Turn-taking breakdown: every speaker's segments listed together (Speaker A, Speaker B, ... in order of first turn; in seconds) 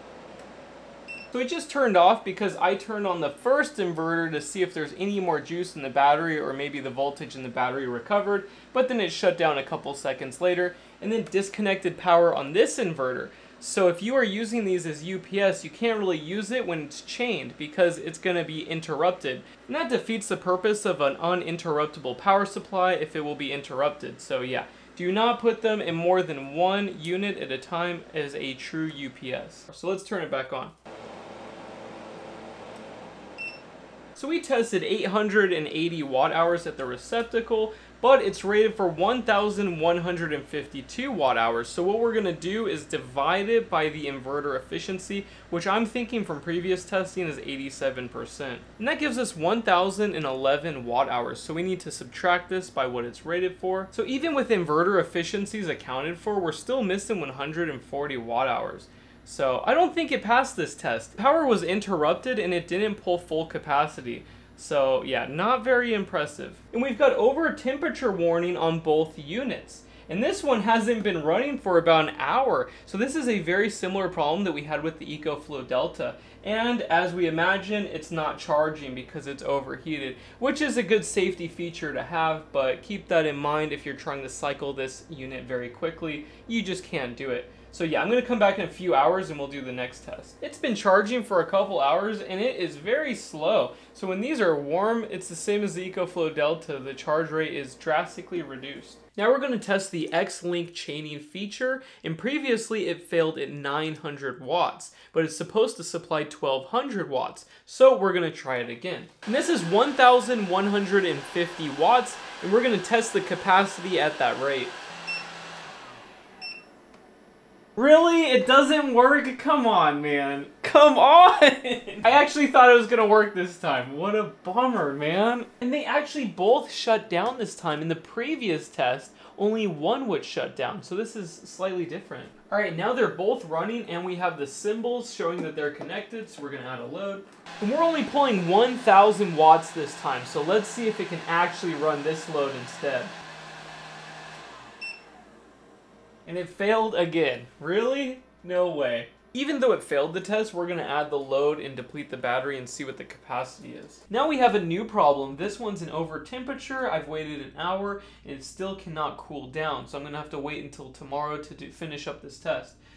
Speaker A: 1.3-30.7, 34.1-114.7, 117.8-143.1, 146.2-162.8